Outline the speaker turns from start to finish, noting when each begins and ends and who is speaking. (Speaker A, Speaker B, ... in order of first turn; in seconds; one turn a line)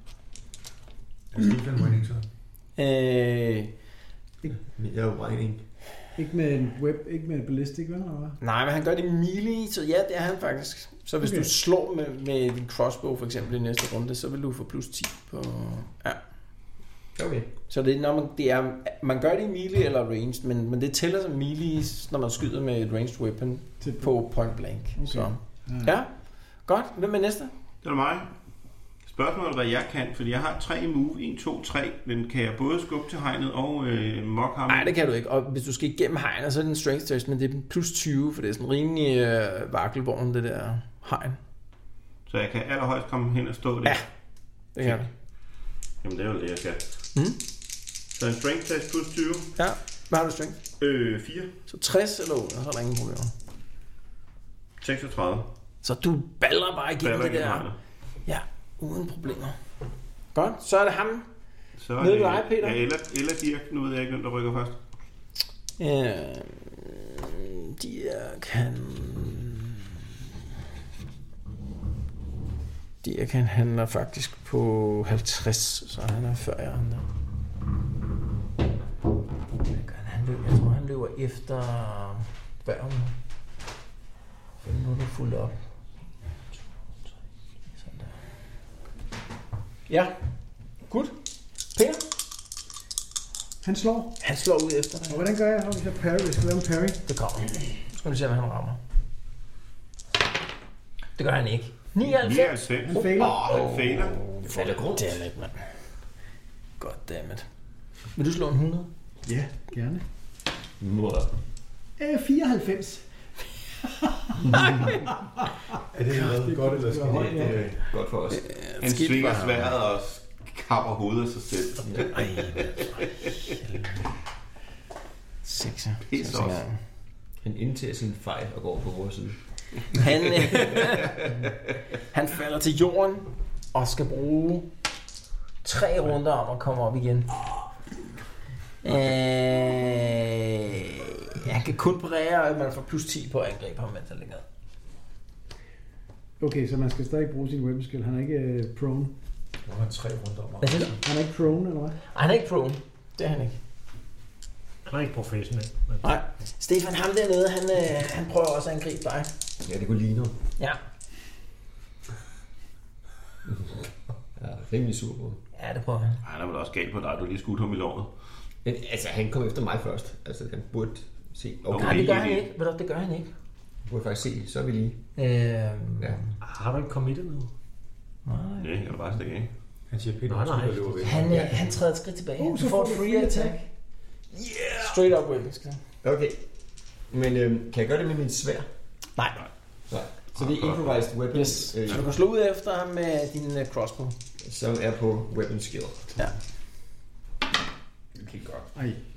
Speaker A: 1.3-2.2
Speaker B: 2.8-3.7
Speaker C: 4.6-5.6
Speaker D: 6.2-8.4
Speaker B: 8.4-16.2
Speaker D: 11.2-11.5
Speaker C: 17.1-17.5
Speaker B: 17.7-26.1
Speaker D: 23.8-24.1
Speaker D: 24.9-25.9
Speaker B: 26.6-27.5
Speaker E: 27.8-28.3
Speaker E: 29.1-34.9
Speaker B: 34.7-41.4
Speaker E: 42.3-44.0
Speaker B: 44.7-45.1
Speaker E: 46.0-46.8
Speaker E: 48.1-49.5
Speaker B: 49.6-50.6
Speaker E: 50.8-51.5
Speaker B: 51.7-53.3
Speaker E: 54.8-55.5
Speaker B: 55.8-57.6
Speaker E: 57.0-57.8
Speaker B: 58.2-59.5
Speaker B: 60.3-61.2
Speaker E: 61.8-64.8
Speaker B: 62.0-62.8
Speaker B: 65.8-69.9
Speaker B: 73.0-77.0
Speaker B: 79.7-83.1
Speaker B: 84.6-85.5
Speaker B: 87.8-88.1
Speaker B: 89.9-90.1
Speaker B: 90.9-91.1
Speaker B: 91.7-92.0
Speaker D: 93.6-94.2
Speaker B: 94.2-95.3
Speaker D: 95.1-97.0
Speaker B: 97.0-98.8
Speaker B: 101.2-103.0
Speaker E: 102.0-104.2
Speaker D: 102.8-103.5
Speaker C: 103.0-105.3
Speaker B: 104.1-105.6
Speaker B: 106.8-107.5
Speaker B: 108.1-108.9
Speaker D: 109.2-110.0
Speaker C: 110.8-111.3
Speaker D: 112.0-115.2
Speaker C: 114.5-114.7
Speaker B: 114.6-114.9
Speaker A: 115.9-117.8
Speaker D: 116.1-117.6
Speaker C: 117.1-118.4
Speaker B: 118.3-119.7
Speaker E: 118.8-122.2
Speaker B: 122.1-123.8
Speaker B: 125.4-126.8
Speaker E: 126.1-126.6
Speaker C: 127.4-129.4
Speaker B: 130.0-131.1
Speaker B: 132.1-134.7
Speaker B: 135.6-137.5
Speaker B: 138.8-144.4
Speaker D: 146.4-149.1
Speaker A: 149.6-151.0
Speaker B: 150.6-150.9
Speaker D: 150.9-152.0
Speaker B: 152.1-153.6
Speaker F: 154.8-156.1
Speaker B: 156.0-159.3
Speaker C: 159.6-160.3
Speaker C: 164.4-165.4
Speaker B: 165.6-166.2
Speaker E: 166.2-168.1
Speaker C: 168.6-172.2
Speaker E: 171.7-172.5
Speaker B: 171.8-173.3
Speaker C: 173.8-175.0
Speaker B: 175.2-176.3
Speaker F: 176.4-177.5
Speaker B: 178.2-178.7
Speaker E: 178.6-179.5
Speaker A: 179.9-181.7
Speaker F: 180.2-181.2
Speaker B: 181.0-183.6
Speaker C: 181.3-181.6
Speaker D: 182.4-183.6
Speaker B: 184.7-185.8
Speaker C: 186.0-186.4
Speaker C: 187.1-188.7
Speaker B: 189.2-189.4
Speaker C: 189.9-192.1
Speaker E: 190.3-191.0
Speaker B: 191.3-194.1
Speaker C: 194.4-196.1
Speaker C: 198.2-198.7
Speaker D: 198.7-199.0